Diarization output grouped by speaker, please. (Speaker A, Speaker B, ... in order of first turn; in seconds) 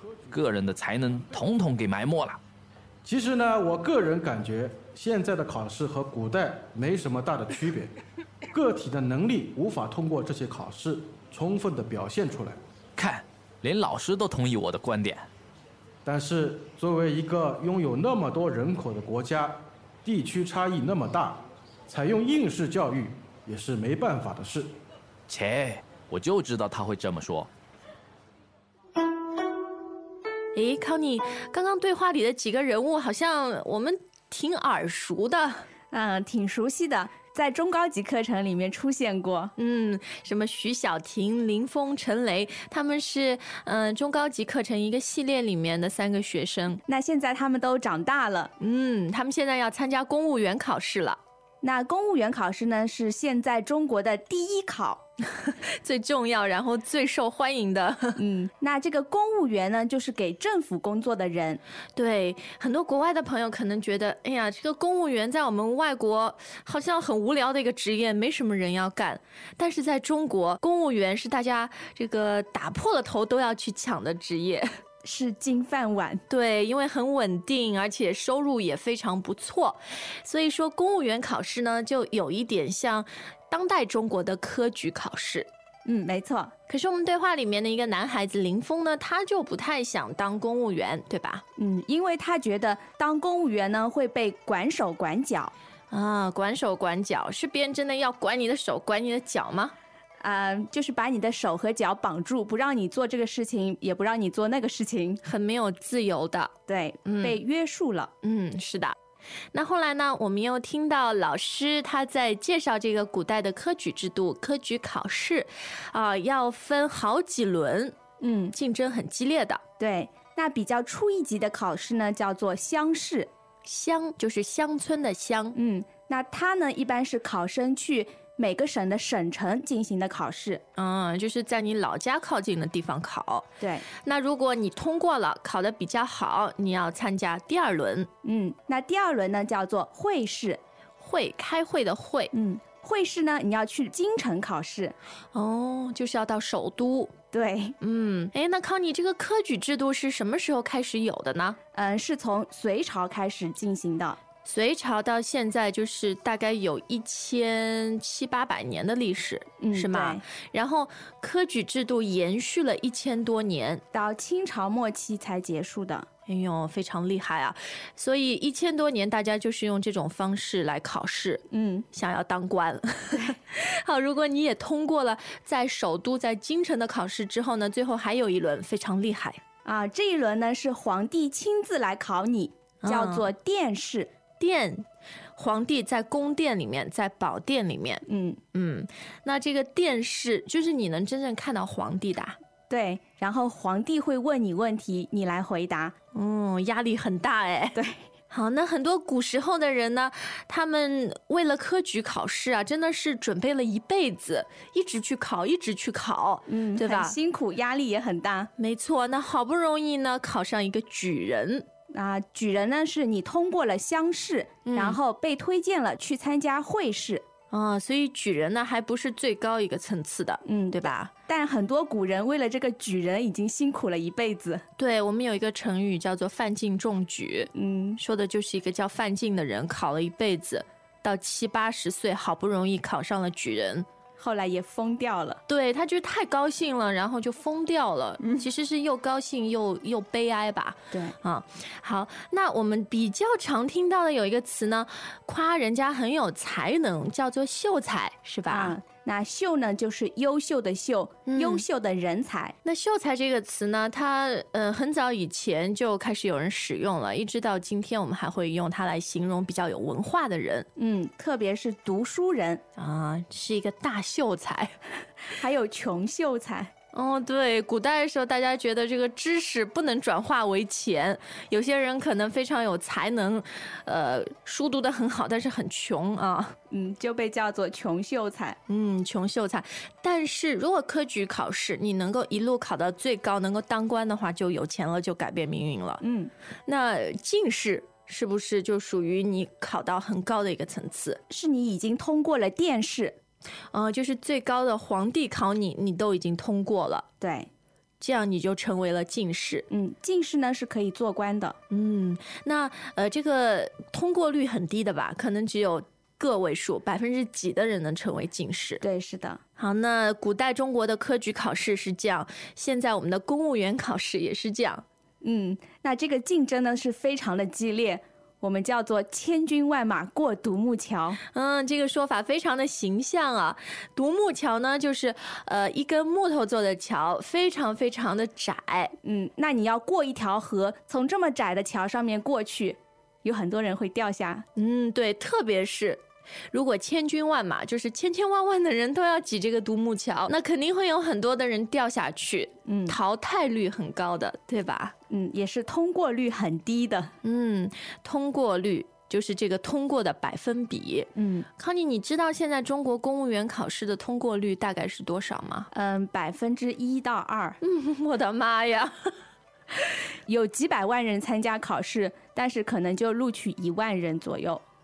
Speaker A: 0.3-2.4, 13.0-15.3, 25.3-27.5
Speaker B: 3.0-7.9, 8.5-12.6, 16.0-24.7
Speaker C: 30.6-35.7, 39.6-46.8, 48.6-51.2, 55.4-58.2, 62.0-74.7, 76.3-85.5, 86.7-91.4, 95.9-99.7, 105.2-106.5, 107.0-107.4, 108.2-109.0, 109.5-118.0, 118.5-119.6, 123.7-125.6, 130.8-138.1, 141.0-142.3, 145.3-147.1, 147.8-151.6, 154.4-163.8, 166.3-179.4, 182.8-183.3, 184.4-192.4, 196.1-207.2, 208.6-211.7, 214.7-215.0, 217.5-221.1, 224.8-233.9, 235.5-248.8, 251.3-251.7, 252.6-260.7, 262.8-264.8, 266.9-276.6, 278.7-286.0, 286.7-291.2, 293.7-297.1, 298.0-299.7, 301.7-308.8, 309.6-314.9, 321.3-328.9, 334.6-344.9, 347.2-355.7, 357.6-358.9
Speaker D: 35.9-39.5, 46.9-48.5, 51.6-55.0, 58.2-61.6, 75.0-76.2, 85.9-86.5, 91.6-95.5, 100.2-105.2, 106.7-108.1, 118.2-118.5, 119.8-123.3, 125.5-130.6, 133.6-133.9, 138.2-140.6, 142.3-144.9, 147.3-147.8, 151.7-154.2, 159.6-160.2, 163.9-166.1, 171.5-171.9, 179.7-184.1, 188.1-188.4, 192.7-195.9, 197.8-198.0, 206.5-208.5, 211.9-217.2, 220.4-224.6, 227.6-228.0, 234.2-235.4, 238.2-238.5, 248.5-252.5, 260.8-262.6, 265.4-266.7, 276.7-278.6, 286.0-286.3, 291.3-293.2, 297.2-297.5, 299.7-301.6, 308.8-309.4, 315.2-321.2, 329.0-334.4, 342.7-343.0, 345.1-347.1, 351.2-351.5, 355.7-357.6, 360.3-364.6